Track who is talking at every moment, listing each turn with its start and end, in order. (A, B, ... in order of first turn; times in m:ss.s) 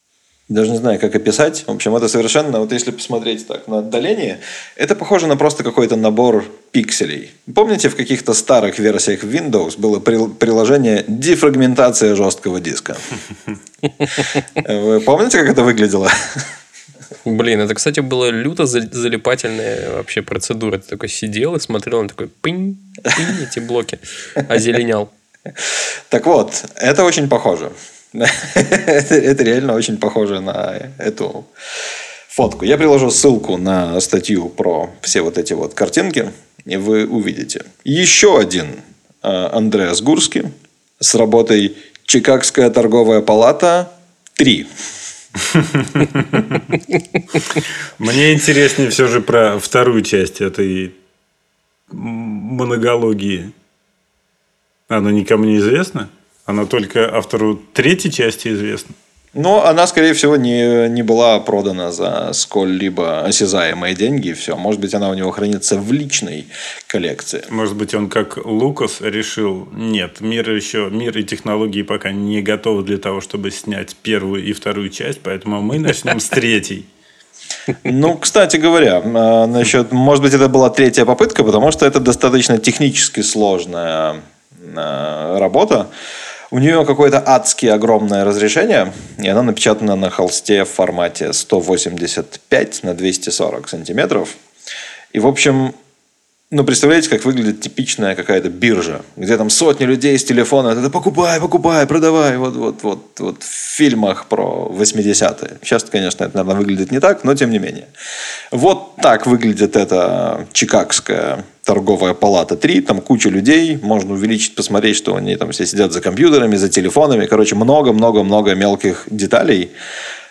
0:00.5-0:13.0 A
0:14.6-0:16.4 A
0:17.2-0:25.1 B
0:25.6-0:31.5 A
0:32.3-0:44.7 A
0:45.6-0:46.6 C
0:48.0-0:50.9 C
0:51.9-0:53.5 C
0:54.9-0:58.9 C
0:59.3-1:07.5 A
1:07.5-1:16.9 C
1:17.8-1:25.9 A
1:26.5-1:34.4 A
1:35.1-1:35.7 A
1:36.5-1:47.9 A
1:48.5-1:59.7 A